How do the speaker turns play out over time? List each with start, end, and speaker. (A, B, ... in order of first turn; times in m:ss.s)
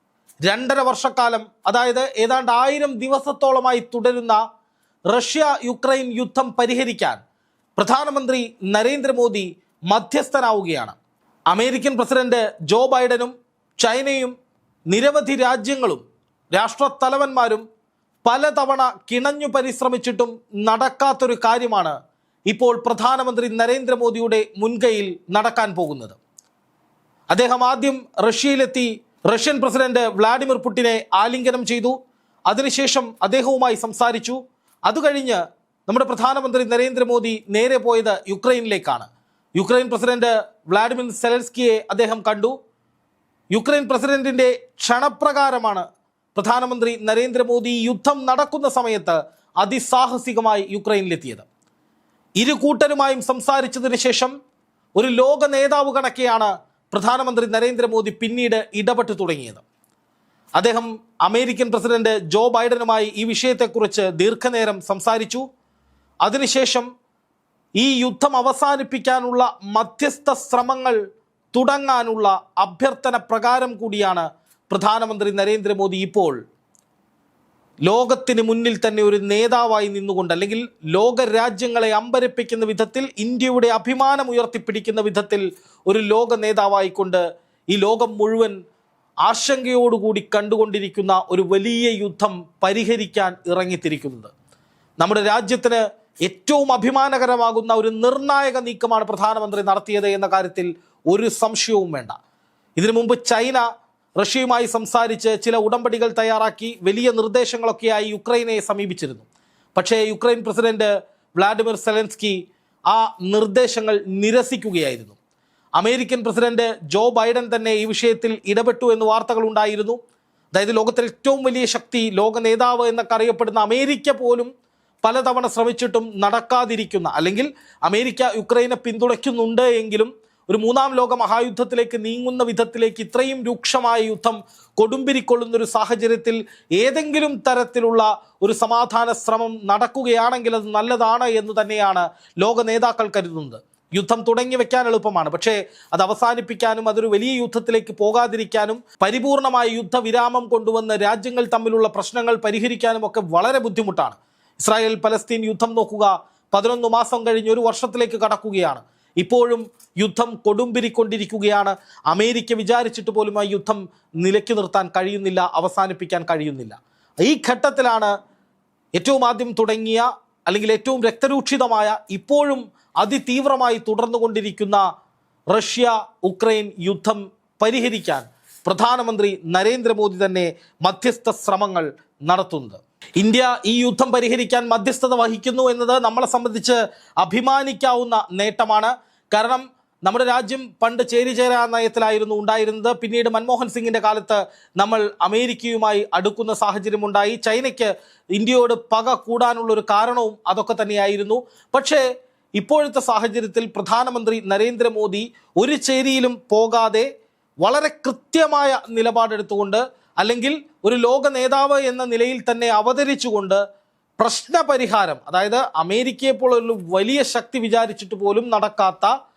0:00.4-0:04.4 A
0:05.1-0:07.2 A
0:07.8-0:11.0 A
0:11.5-0:14.3 A
0:14.9-0:16.0 A
0:16.5-0:17.6 A
0:18.2-0:22.0 A
0:22.5-0:26.2 A
0:27.3-0:32.0 A
0:32.5-0:39.0 A
0:39.6-0:42.5 A
0:43.5-0:51.4 A
0:52.4-0:54.3 A
0:55.0-0:59.6 A
1:00.6-1:05.4 A
1:06.2-1:06.9 A
1:07.8-1:11.0 A
1:11.5-1:16.4 A
1:17.8-1:28.6 A
1:29.2-1:34.3 A
1:35.0-1:42.1 A
1:42.8-1:43.6 A
1:44.2-1:55.2 A
1:55.8-2:00.0 A
2:00.5-2:04.5 A
2:05.0-2:48.1 A
2:49.0-2:54.8 A
2:55.5-3:22.0 A
3:22.6-3:27.1 A
3:27.6-3:33.6 A
3:34.2-3:39.1 A